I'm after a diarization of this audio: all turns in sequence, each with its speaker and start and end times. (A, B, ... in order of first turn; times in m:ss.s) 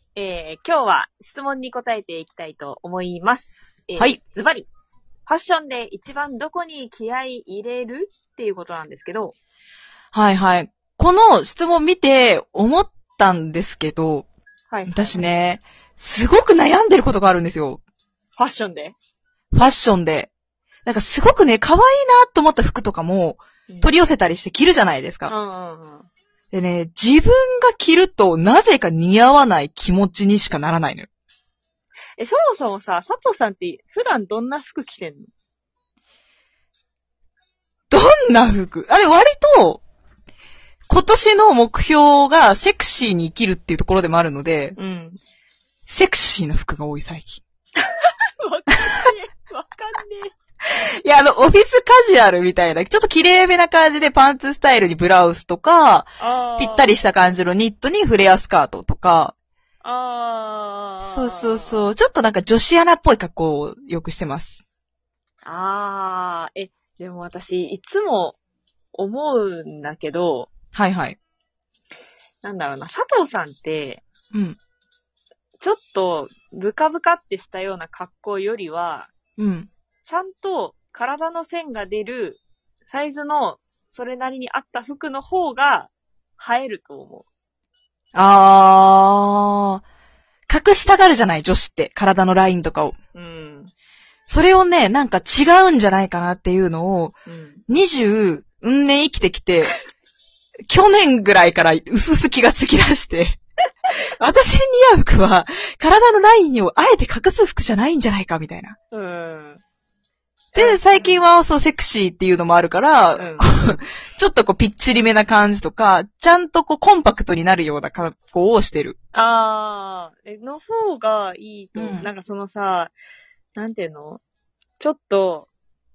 0:00.2-0:04.7 A
0:05.3-0:09.4 A
0:10.1-0:14.3 B
0:14.7-0:15.3 A
0:14.9-0:17.8 B
0:18.4-0:19.0 A
0:19.5-0:20.3 B
0:20.8-0:25.3 B
0:25.3-0:26.1 A
0:26.5-0:31.1 B
0:32.2-0:35.3 A
0:37.9-0:39.8 B
0:40.9-0:44.8 B
0:44.8-0:45.2 A
0:45.9-0:47.4 B
0:47.8-0:50.3 A
0:51.0-0:59.3 B
0:56.2-0:56.9 A
0:59.8-1:01.9 A
1:01.0-1:04.6 B
1:05.4-1:08.4 A
1:08.9-1:10.5 A
1:10.7-1:11.2 B
1:12.4-1:14.0 A
1:14.3-1:14.6 B
1:15.6-1:19.1 A
1:19.4-1:19.7 B
1:20.0-1:27.3 A
1:28.2-1:29.8 B
1:30.5-1:33.0 B
1:33.2-1:33.7 A
1:34.3-1:37.2 B
1:37.3-1:37.6 A
1:37.7-1:39.8 B
1:40.7-1:43.4 B
1:44.2-1:48.8 B
1:48.9-1:49.6 A
1:50.5-1:51.2 A
1:50.6-1:59.0 B
1:53.2-1:53.8 A
1:59.1-2:02.9 A
2:01.8-2:02.1 B
2:03.6-2:04.2 A
2:04.8-2:05.5 A